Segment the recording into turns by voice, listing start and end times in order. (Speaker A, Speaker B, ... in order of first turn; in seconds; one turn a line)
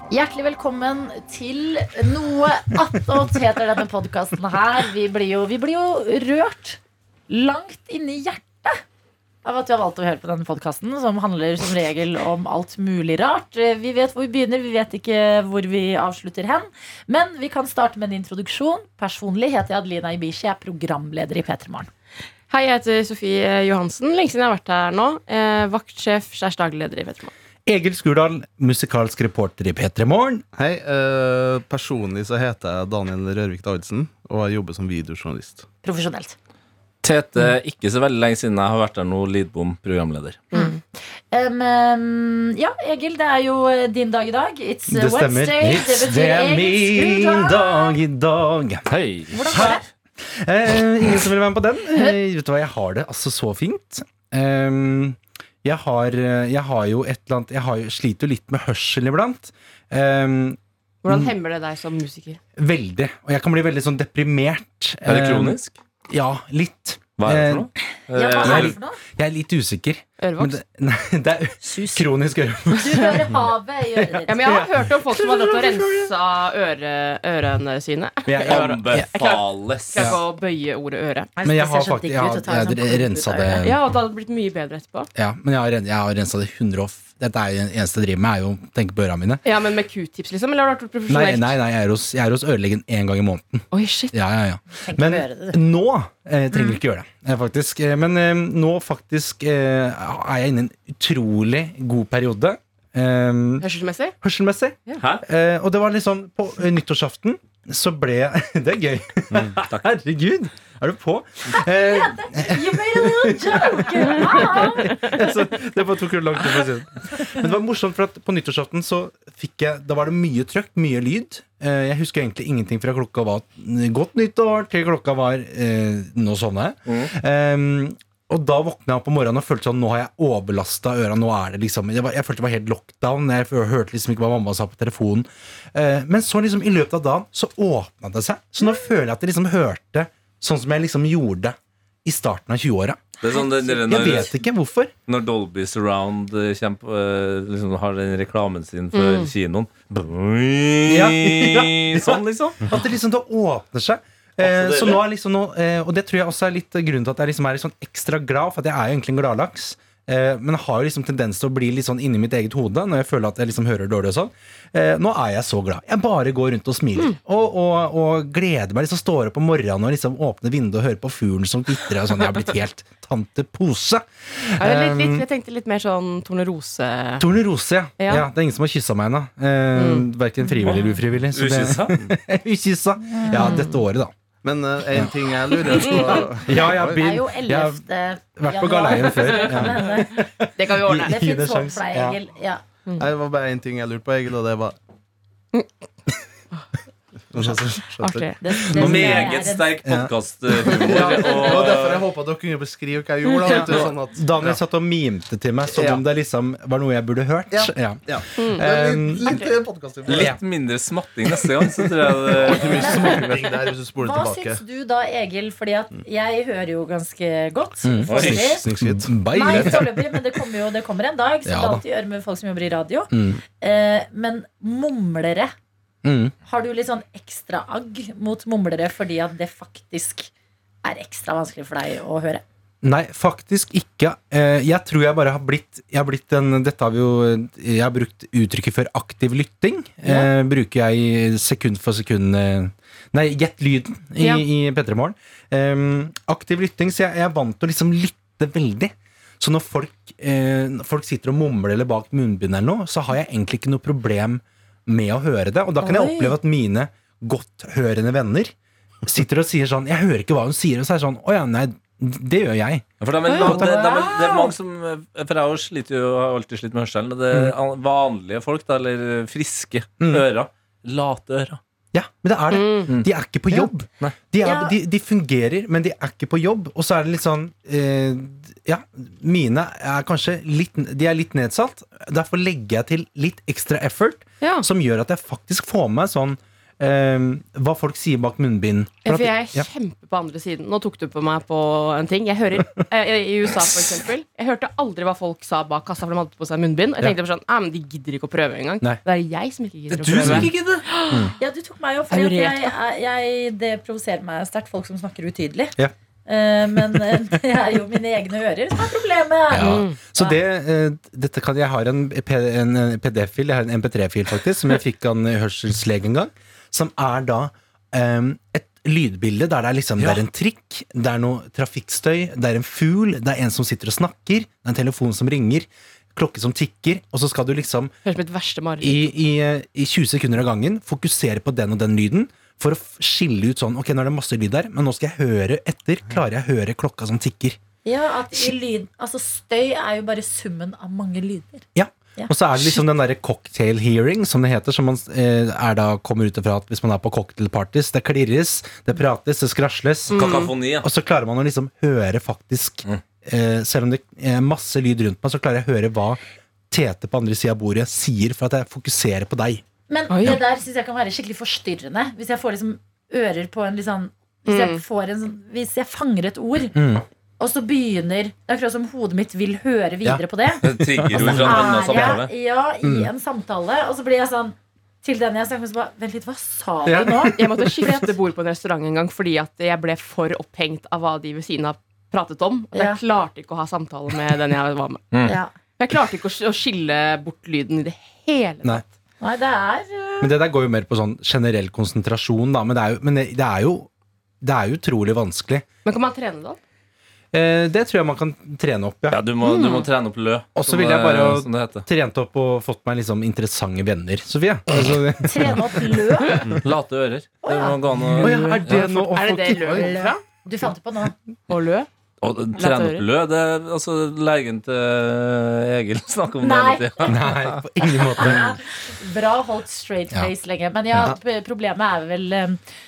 Speaker A: 0.1-8.8
Speaker A: 9.4-21.9
Speaker B: 22.5-27.3
Speaker C: 27.6-30.4
Speaker D: 30.5-35.6
Speaker A: 35.8-36.3
Speaker E: 37.0-40.4
Speaker B: 40.5-40.8
Speaker A: 40.5-40.8
Speaker A: 41.3-47.9
Speaker C: 44.9-48.9
Speaker E: 48.9-49.7
Speaker A: 49.3-49.8
Speaker C: 49.4-61.3
Speaker B: 61.0-62.4
Speaker C: 62.6-65.6
Speaker E: 65.0-65.8
Speaker C: 66.1-67.7
Speaker E: 67.2-68.7
Speaker A: 68.1-69.0
Speaker C: 68.4-73.5
Speaker B: 70.2-70.5
Speaker A: 71.6-72.1
Speaker A: 72.7-74.6
Speaker C: 74.0-75.9
Speaker B: 74.3-81.3
Speaker C: 78.2-79.1
Speaker E: 78.5-80.1
Speaker A: 81.4-83.6
Speaker C: 81.4-83.8
Speaker B: 83.6-85.1
Speaker C: 85.2-89.4
Speaker B: 89.4-91.5
Speaker C: 91.1-103.7
Speaker B: 93.7-94.1
Speaker A: 94.8-95.6
Speaker A: 96.5-96.8
Speaker B: 103.6-104.1
Speaker C: 104.2-143.1
Speaker E: 109.3-109.8
Speaker A: 111.8-114.9
Speaker E: 143.2-144.3
Speaker C: 143.8-144.9
Speaker E: 145.1-152.7
Speaker B: 148.9-149.3
Speaker C: 150.9-175.2
Speaker E: 154.4-155.0
Speaker B: 174.6-177.2
Speaker C: 177.2-184.1
Speaker B: 178.0-178.2
Speaker B: 179.7-180.1
Speaker E: 181.3-181.9
Speaker A: 183.1-183.6
Speaker B: 183.3-183.8
Speaker D: 184.4-187.0
Speaker C: 185.7-187.8
Speaker B: 185.7-186.0
Speaker A: 186.5-190.1
Speaker C: 188.3-192.2
Speaker B: 189.4-189.7
Speaker B: 190.6-191.1
Speaker A: 191.0-192.6
Speaker D: 193.0-194.8
Speaker D: 197.3-198.3
Speaker B: 198.0-198.4
Speaker A: 198.4-199.7
Speaker C: 198.7-200.1
Speaker E: 198.7-202.0
Speaker D: 200.7-204.6
Speaker C: 203.5-209.4
Speaker E: 203.6-203.9
Speaker D: 205.7-206.0
Speaker D: 207.5-210.4
Speaker B: 208.4-208.6
Speaker B: 209.2-209.5
Speaker E: 210.1-212.9
Speaker C: 210.1-210.4
Speaker D: 212.4-214.6
Speaker A: 212.6-213.4
Speaker A: 214.0-218.6
Speaker C: 217.8-220.2
Speaker E: 218.1-218.4
Speaker D: 218.1-219.1
Speaker A: 219.3-225.5
Speaker C: 221.4-221.8
Speaker C: 223.1-223.4
Speaker C: 226.0-226.3
Speaker A: 226.4-230.3
Speaker A: 230.8-232.4
Speaker C: 232.8-258.5
Speaker A: 255.8-256.3
Speaker C: 259.1-264.1
Speaker E: 263.0-271.6
Speaker A: 263.3-264.2
Speaker C: 271.9-289.7
Speaker B: 272.5-272.9
Speaker A: 274.4-274.7
Speaker B: 284.4-284.6
Speaker B: 289.0-301.3
Speaker E: 299.9-300.8
Speaker C: 300.1-300.5
Speaker A: 301.4-310.4
Speaker B: 302.1-302.7
Speaker C: 309.5-327.9
Speaker B: 309.6-309.9
Speaker B: 328.0-329.0
Speaker C: 328.8-337.6
Speaker A: 337.8-341.6
Speaker C: 341.7-350.2
Speaker A: 342.2-342.7
Speaker B: 350.1-350.5
Speaker E: 350.1-350.9
Speaker C: 350.8-356.2
Speaker C: 356.7-359.6
Speaker A: 359.9-366.8
Speaker B: 360.1-360.4
Speaker B: 364.5-364.8
Speaker C: 366.7-367.0
Speaker A: 367.4-370.6
Speaker C: 370.0-372.2
Speaker E: 370.6-372.3
Speaker A: 371.2-377.3
Speaker C: 372.8-373.1
Speaker C: 376.9-378.0
Speaker B: 377.3-385.2
Speaker A: 382.7-383.0
Speaker A: 385.2-385.5
Speaker B: 385.8-388.8
Speaker A: 389.2-390.3
Speaker C: 390.2-393.9
Speaker C: 394.4-395.6
Speaker B: 395.8-396.6
Speaker C: 397.3-399.2
Speaker E: 399.1-401.8
Speaker B: 399.4-399.9
Speaker C: 400.6-405.7
Speaker A: 405.2-406.4
Speaker E: 406.6-408.8
Speaker A: 407.4-407.8
Speaker B: 408.1-410.2
Speaker C: 408.2-409.9
Speaker A: 409.6-411.1
Speaker B: 411.5-411.9
Speaker E: 412.2-417.6
Speaker B: 412.6-413.1
Speaker A: 416.4-417.1
Speaker C: 417.0-418.6
Speaker A: 417.9-422.6